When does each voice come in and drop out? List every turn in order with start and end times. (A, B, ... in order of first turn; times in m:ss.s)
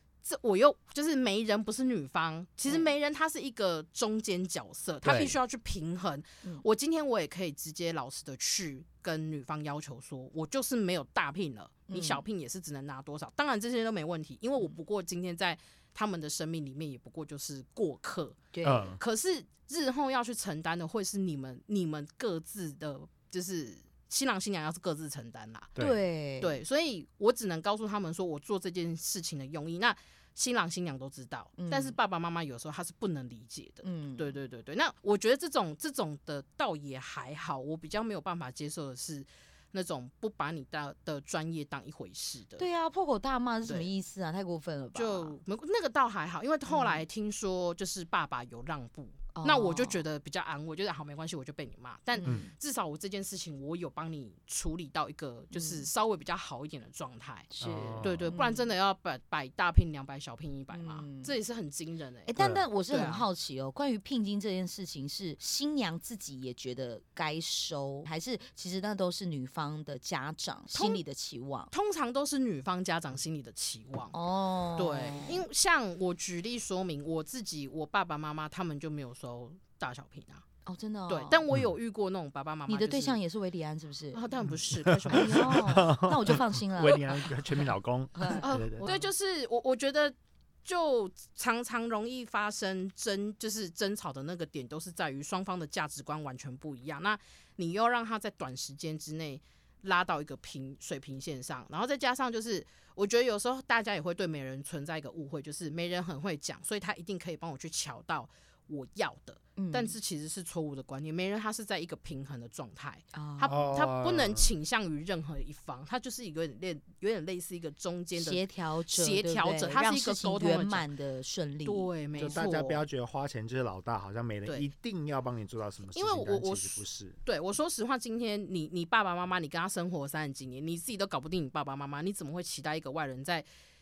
0:00.2-0:25.7 A
0:05.0-0:05.4 B
0:11.9-0:12.2 C
0:18.5-0:19.0 C
0:18.6-0:19.0 B
0:25.8-0:26.6 C
0:26.4-0:42.7 A
0:31.6-0:32.0 C
0:33.8-0:34.3 C
0:42.6-0:45.4 C
0:45.0-1:02.3 A
0:46.7-0:47.0 C
0:49.4-0:50.0 C
0:52.2-0:52.5 C
0:55.5-0:55.9 C
0:57.5-0:58.7 C
0:57.6-0:58.4 B
1:00.7-1:01.3 C
1:02.3-1:11.7 C
1:02.4-1:02.7 B
1:02.9-1:03.2 A
1:10.7-1:11.0 A
1:11.7-1:14.2 A
1:14.1-1:15.4 C
1:14.8-1:20.4 A
1:20.7-1:21.4 C
1:21.1-1:23.2 A
1:22.7-1:24.2 C
1:24.1-1:25.7 A
1:24.9-1:28.9 B
1:25.1-1:27.1 C
1:28.2-1:29.1 C
1:28.4-2:00.9 A
1:49.6-1:50.0 C
1:53.1-1:53.6 C
1:53.5-1:54.5 B
1:58.2-2:01.9 C
2:01.7-2:02.8 A
2:02.2-2:07.2 B
2:06.0-2:13.5 A